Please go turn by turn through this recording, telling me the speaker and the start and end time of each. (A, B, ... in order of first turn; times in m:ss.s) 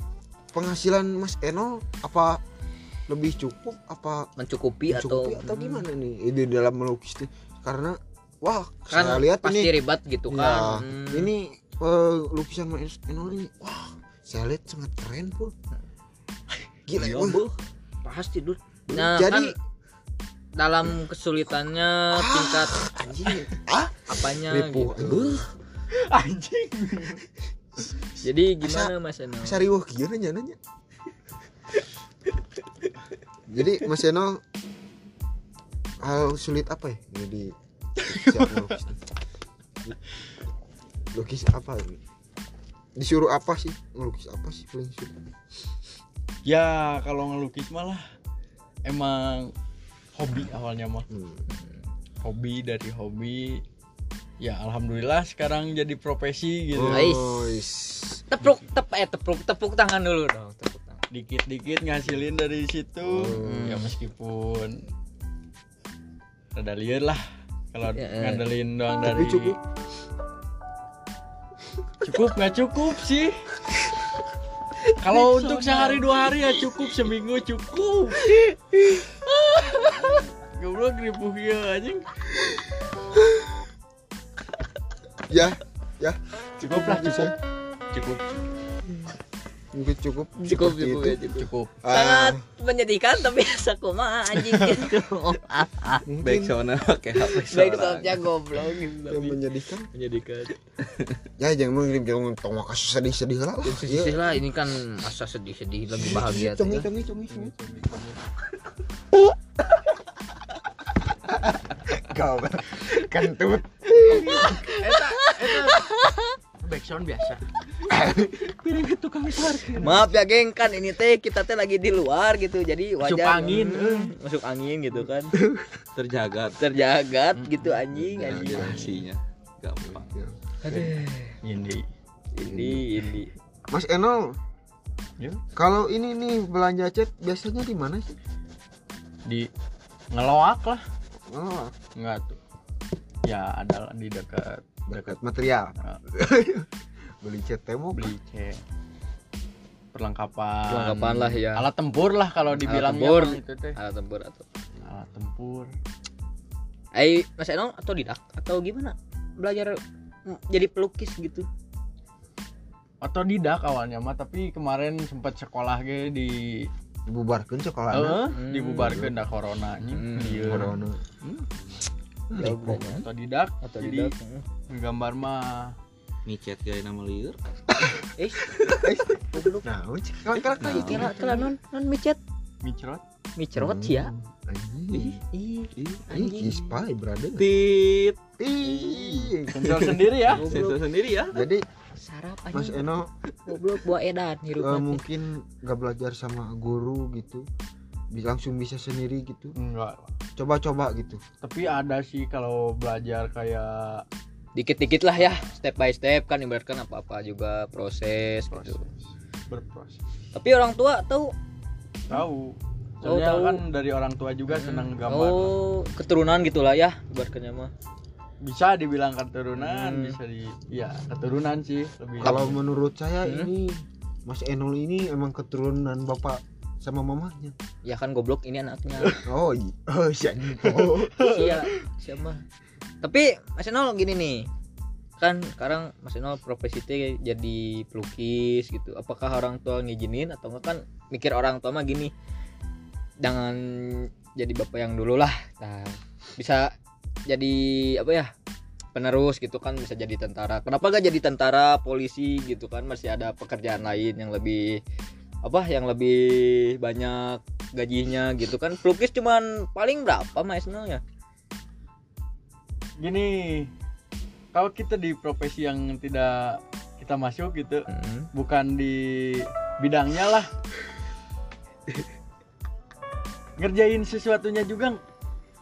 0:00.5-0:02.4 A
0:03.1-0:04.3 A
0:04.4-0:05.9 B
0:04.9-0:09.7 A
0:08.9-0:11.3 B
0:10.3-0:15.5 A
0:16.9-0:17.4 A
0:16.9-0:17.6 C
0:18.0-0:19.5 B
0:18.9-0:19.5 A
0:20.6-0:22.9 B
0:22.1-0:25.5 A
0:24.0-0:24.9 B
0:25.0-0:25.5 C
0:25.9-0:27.2 D
0:28.2-0:29.6 B
0:28.6-0:30.6 A
0:33.5-0:34.4 A
0:36.0-0:37.5 A
0:38.0-0:38.8 D
0:38.1-0:39.0 A
0:41.1-0:42.0 A
0:43.0-0:45.2 A
0:46.4-0:48.0 D
0:48.8-0:49.5 D
0:50.1-0:51.0 D
0:51.1-0:51.4 A
0:52.2-0:53.6 D
0:54.4-0:57.1 D
0:56.7-0:58.2 A
0:56.8-0:57.6 B
0:58.3-1:01.0 B
1:01.1-1:04.8 D
1:03.0-1:03.7 A
1:03.4-1:03.9 B
1:06.5-1:09.6 D
1:07.9-1:08.4 B
1:09.0-1:09.6 A
1:12.0-1:13.4 D
1:15.0-1:18.4 D
1:15.0-1:16.3 B
1:19.5-1:20.1 B
1:19.7-1:22.0 D
1:25.3-1:27.3 A
1:26.6-1:27.3 D
1:27.9-1:28.2 D
1:29.7-1:31.2 A
1:30.4-1:36.1 B
1:31.3-1:31.7 D
1:31.8-1:32.4 A
1:36.1-1:36.6 A
1:36.2-1:38.2 C
1:37.3-1:39.4 B
1:39.1-1:39.9 A
1:39.9-1:40.6 B
1:41.4-1:44.4 A
1:43.6-1:46.9 B
1:45.9-1:47.5 A
1:47.3-1:48.2 D
1:51.2-1:54.6 A
1:54.1-1:55.9 D
1:54.2-1:56.3 B
1:56.6-1:57.4 D
1:57.9-1:58.3 A
1:58.5-1:59.9 C
1:58.6-2:00.0 D
1:59.8-2:05.3 B
2:03.0-2:04.1 D
2:05.4-2:05.7 A
2:06.0-2:06.6 C
2:06.6-2:08.9 B
2:07.3-2:07.8 D
2:07.9-2:10.1 C
2:08.2-2:09.0 A
2:09.9-2:10.3 A
2:10.6-2:11.3 B
2:10.7-2:11.8 D
2:12.3-2:13.3 B
2:12.4-2:12.9 A
2:13.7-2:14.4 A
2:15.5-2:18.2 A
2:20.1-2:20.8 D
2:21.3-2:21.7 A
2:22.0-2:22.4 D
2:23.2-2:25.2 D
2:24.9-2:26.7 A
2:27.2-2:28.1 A
2:27.9-2:28.6 D
2:29.9-2:33.8 D
2:30.7-2:31.7 B
2:32.6-2:34.4 B
2:34.8-2:35.7 D
2:36.9-2:41.5 B
2:43.0-2:46.7 D
2:47.1-2:49.1 A
2:47.9-2:51.4 D
2:48.3-2:49.0 B
2:49.9-2:50.7 B
2:50.4-2:51.0 A
2:52.3-2:52.9 A
2:52.3-2:53.1 B
2:52.7-2:54.1 D
2:53.6-2:54.4 B
2:54.7-2:55.7 D
2:56.2-2:57.4 C
2:58.2-2:58.4 B
2:58.7-3:01.4 A
2:59.1-2:59.6 B
3:00.4-3:02.2 B
3:00.6-3:01.3 C
3:02.6-3:03.0 D
3:03.4-3:04.1 B
3:03.6-3:05.2 A
3:04.9-3:05.2 C
3:05.3-3:06.6 B
3:05.8-3:06.1 C
3:06.1-3:07.5 A
3:07.4-3:08.2 C
3:08.4-3:09.6 A
3:08.9-3:11.4 C
3:09.5-3:10.5 D
3:10.3-3:10.8 B
3:11.3-3:11.6 A
3:12.0-3:15.0 B
3:12.5-3:13.1 A
3:14.6-3:17.4 A
3:18.1-3:19.5 A
3:19.6-3:20.1 D
3:20.4-3:21.2 A
3:21.4-3:24.0 D
3:24.6-3:28.8 B
3:28.5-3:30.0 D
3:30.3-3:31.3 B
3:32.1-3:35.5 D
3:33.0-3:33.6 B
3:34.5-3:37.7 B
3:38.4-3:42.6 D
3:39.6-3:40.2 B
3:42.2-3:47.5 A
3:47.8-3:49.2 B
3:49.2-3:51.2 A
3:50.6-3:51.7 D
3:51.2-3:52.4 B
3:53.0-3:54.5 B
3:55.2-4:02.1 B
4:03.2-4:06.7 B
4:07.3-4:08.3 B
4:08.9-4:14.8 B
4:15.4-4:21.0 B
4:23.0-4:23.7 D
4:24.5-4:30.5 D
4:27.9-4:28.3 B
4:33.6-4:35.0 D